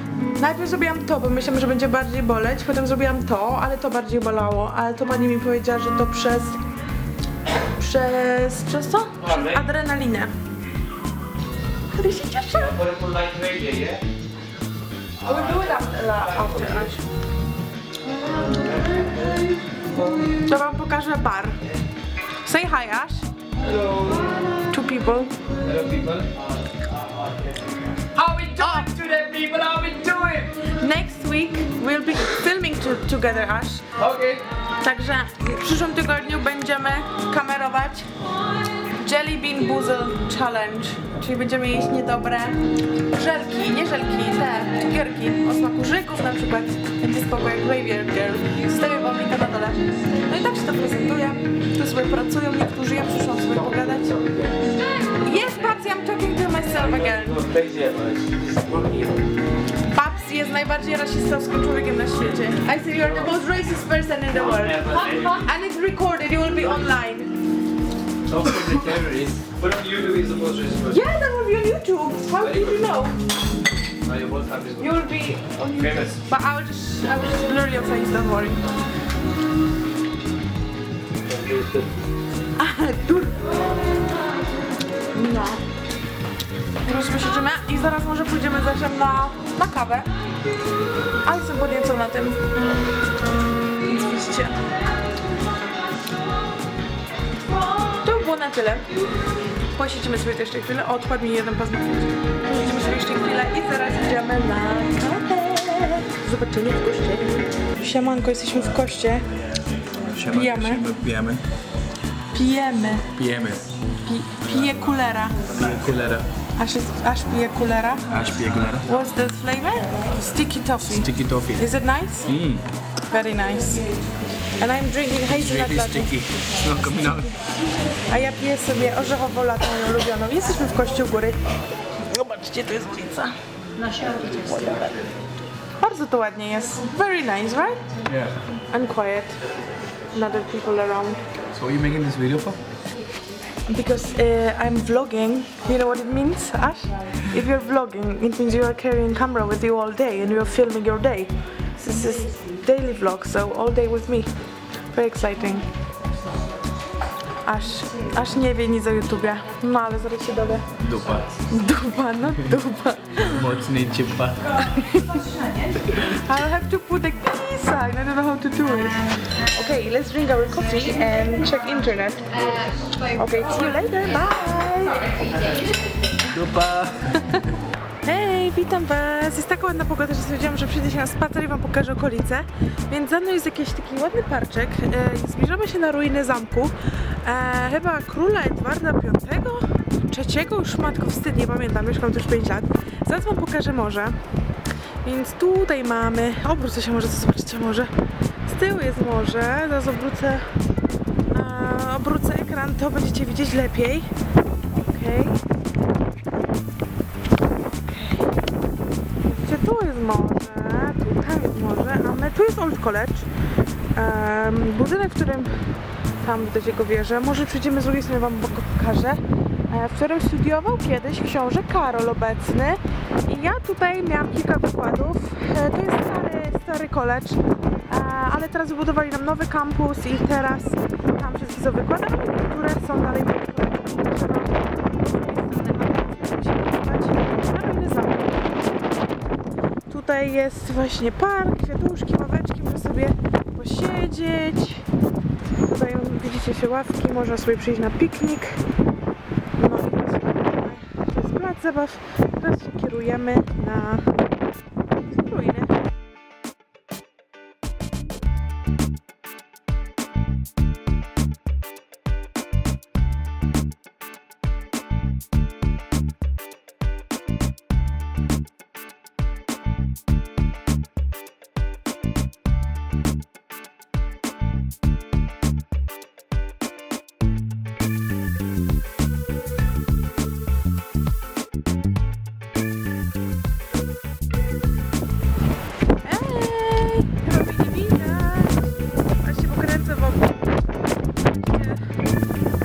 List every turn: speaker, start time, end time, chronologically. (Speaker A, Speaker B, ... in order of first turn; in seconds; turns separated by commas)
Speaker A: 0.4-6.6, Speaker A: 7.6-10.3, Speaker B: 9.2-9.7, Speaker A: 11.9-12.8, Speaker B: 12.5-14.1, Speaker B: 15.2-16.9, Speaker A: 15.2-17.0, Speaker B: 18.1-20.4, Speaker A: 20.4-21.6, Speaker A: 22.4-23.2, Speaker B: 23.6-24.4, Speaker A: 24.7-25.3, Speaker B: 25.6-30.6, Speaker A: 28.3-28.9, Speaker A: 30.7-33.9, Speaker B: 34.0-34.4, Speaker A: 34.8-38.2, Speaker A: 38.9-54.2, Speaker B: 53.5-54.6, Speaker A: 55.1-57.4, Speaker B: 56.7-59.3, Speaker A: 59.9-67.4, Speaker B: 62.9-63.4, Speaker B: 64.3-65.5, Speaker B: 68.3-71.0, Speaker A: 70.9-73.2, Speaker B: 72.4-73.0, Speaker B: 74.0-75.0, Speaker A: 74.8-78.7, Speaker B: 75.7-76.2, Speaker B: 81.2-81.9, Speaker A: 82.6-83.5, Speaker A: 85.1-85.6, Speaker A: 86.8-90.1, Speaker A: 91.2-92.8, Speaker A: 93.8-94.6, Speaker A: 98.0-98.9, Speaker A: 99.7-109.3, Speaker C: 110.0-111.4, Speaker A: 110.3-110.9, Speaker A: 112.3-113.2, Speaker C: 113.2-113.7, Speaker A: 114.0-115.4, Speaker C: 115.5-116.3, Speaker A: 116.6-118.2, Speaker C: 118.1-118.8, Speaker A: 118.8-122.3, Speaker C: 121.0-121.7, Speaker C: 122.3-122.7, Speaker A: 123.1-123.9, Speaker A: 124.6-126.2, Speaker C: 125.3-127.4, Speaker A: 128.1-131.4, Speaker A: 132.1-133.4, Speaker B: 134.2-134.9, Speaker A: 135.8-137.8, Speaker C: 138.1-138.4, Speaker A: 138.7-139.4, Speaker A: 140.1-141.2, Speaker C: 141.5-142.6, Speaker A: 143.7-154.3, Speaker A: 154.9-155.7, Speaker A: 157.4-160.7, Speaker C: 160.8-161.3, Speaker A: 161.5-163.5, Speaker C: 163.3-164.6, Speaker A: 164.6-165.3, Speaker A: 165.9-175.3, Speaker C: 176.3-177.1, Speaker A: 178.0-194.2, Speaker A: 195.0-197.9, Speaker A: 198.4-200.5, Speaker A: 201.3-204.1, Speaker A: 204.7-205.4, Speaker A: 207.6-208.3, Speaker A: 209.2-213.3, Speaker A: 213.9-215.7, Speaker A: 216.2-238.5, Speaker A: 239.9-244.9, Speaker A: 245.6-248.6, Speaker A: 249.5-254.1, Speaker A: 255.2-255.7, Speaker A: 286.0-290.4, Speaker A: 291.2-292.0